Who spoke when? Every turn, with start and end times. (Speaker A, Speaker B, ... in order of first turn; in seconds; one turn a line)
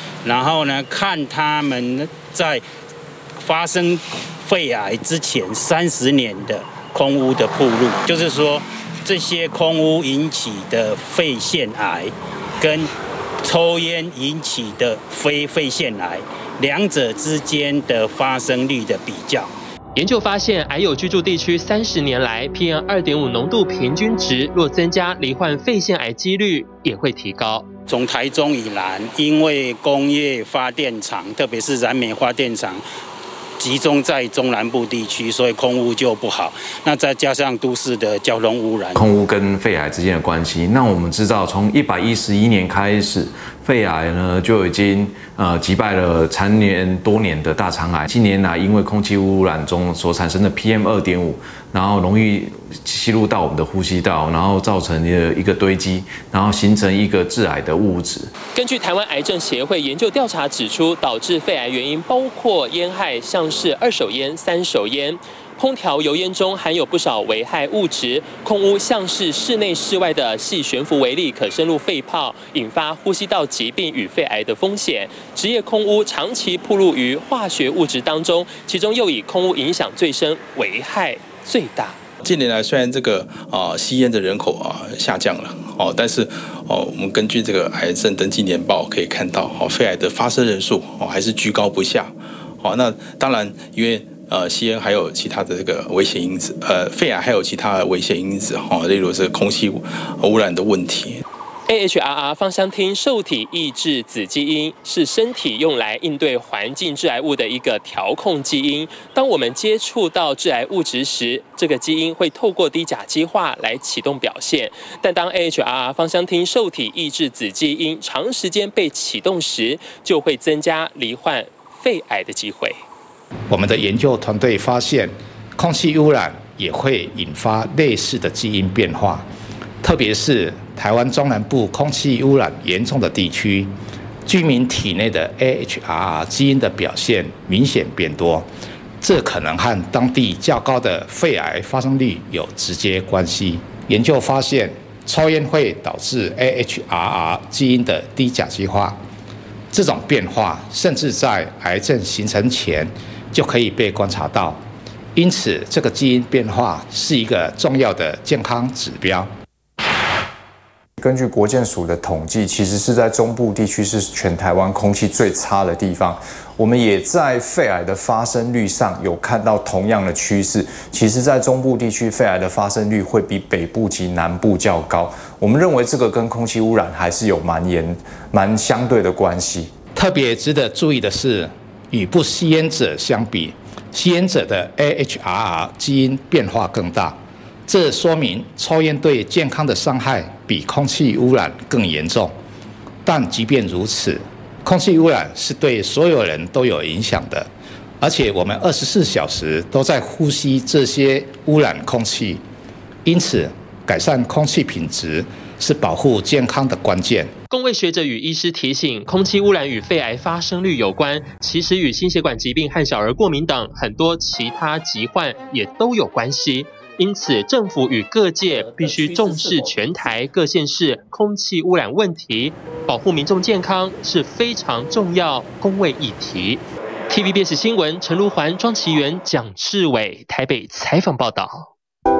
Speaker A: 0.2-2.6
Speaker A: 3.4-19.5
Speaker B: 19.9-27.7
Speaker A: 27.9-32.8
Speaker A: 33.6-39.1
Speaker C: 38.9-58.3
Speaker B: 58.5-82.0
Speaker D: 82.2-101.2
Speaker B: 101.7-122.8
Speaker E: 123.5-129.3
Speaker E: 129.8-133.7
Speaker E: 134.2-138.5
Speaker E: 139.0-149.0
Speaker E: 149.7-154.6
Speaker E: 155.1-159.3
Speaker F: 161.0-179.7
Speaker E: 179.9-192.3
Speaker E: 193.0-197.5
Speaker E: 198.0-202.4
Speaker E: 203.0-207.3
Speaker B: 207.5-231.7